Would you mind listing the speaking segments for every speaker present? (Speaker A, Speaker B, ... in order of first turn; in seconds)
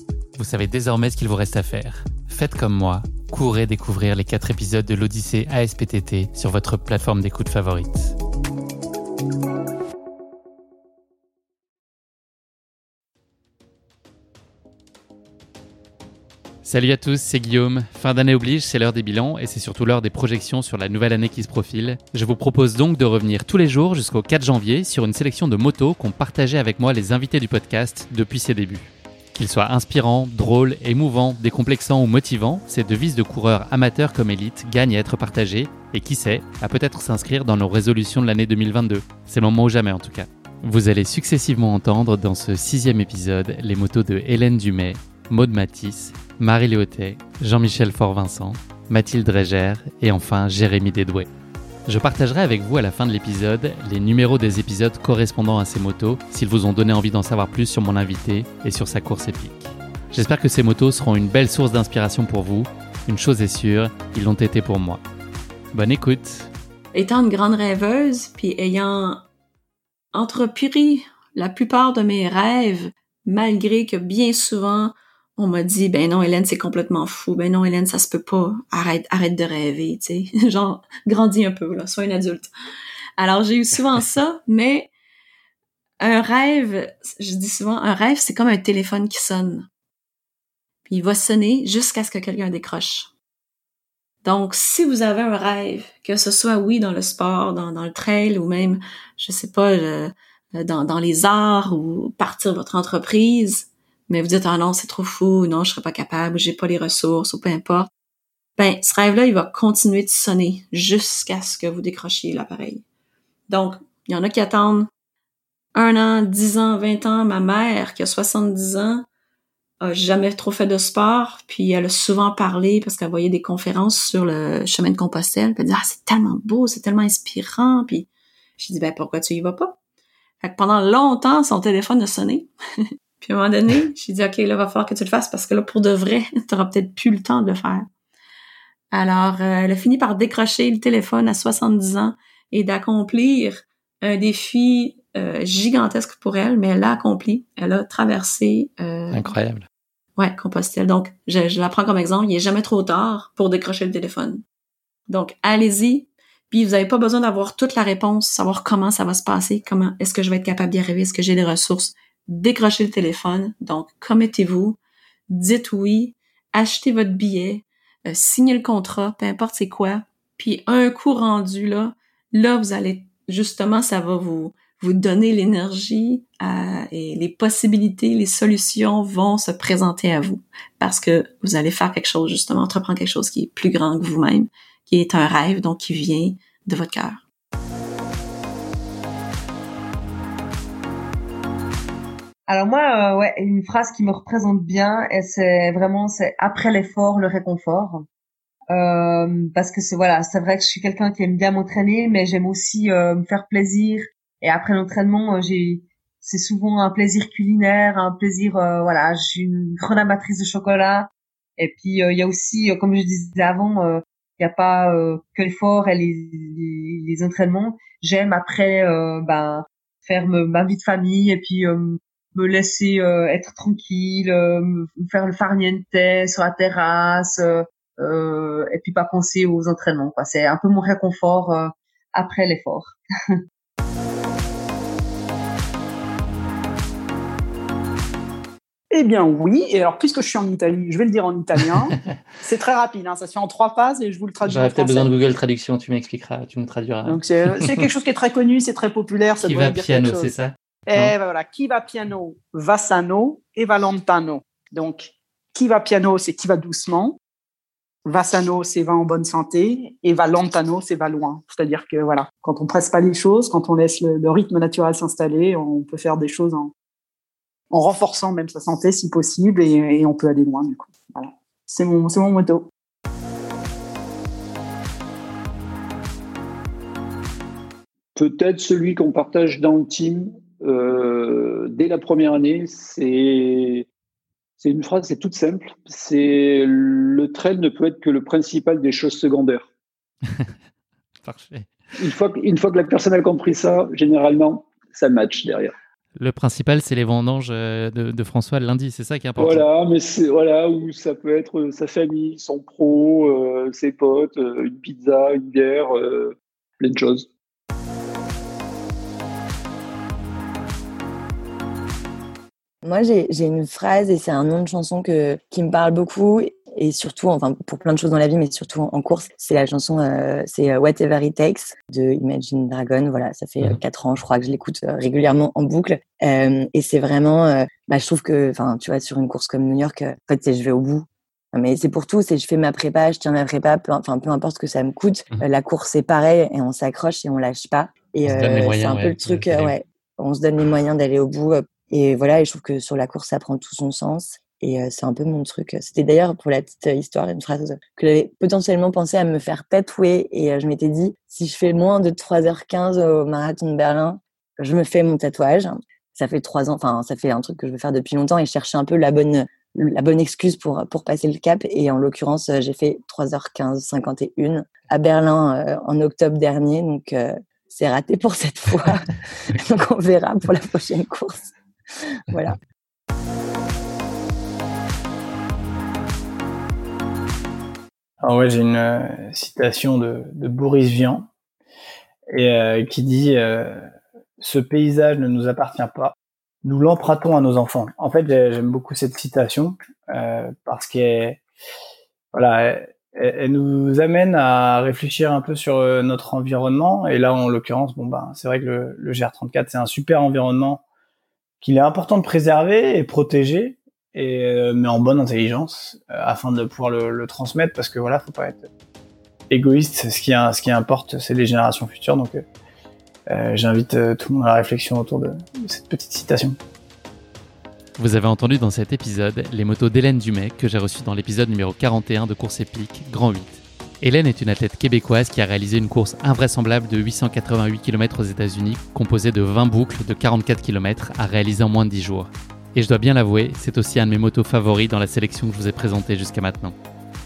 Speaker A: 0.3-8.1, 16.6-51.3, 51.9-65.0, 65.7-66.5, 149.1-149.6, 244.5-247.8, 249.4-251.2, 291.2-291.7, 296.1-299.7, 338.2-339.7, 418.0-436.8
Speaker B: 66.9-69.2, 70.1-82.5, 83.2-84.9, 86.0-89.7, 90.9-93.1, 94.2-107.9, 108.6-112.8, 113.5-114.9, 115.8-119.1, 119.8-129.8, 130.4-132.5, 133.2-137.9, 138.9-149.3, 150.2-154.4, 155.1-164.8, 165.3-187.2
Speaker C: 192.5-198.0, 198.7-233.4
Speaker D: 238.9-245.1, 247.0-250.3, 250.9-257.2, 258.1-266.7, 267.7-272.7
Speaker E: 278.1-283.9, 284.6-289.7, 292.0-295.7, 299.4-307.3
Speaker F: 312.8-371.5, 372.1-372.6
Speaker G: 378.2-381.3, 382.3-383.8, 384.4-391.4, 392.3-400.8, 401.6-408.6, 409.5-412.4, 413.3-416.6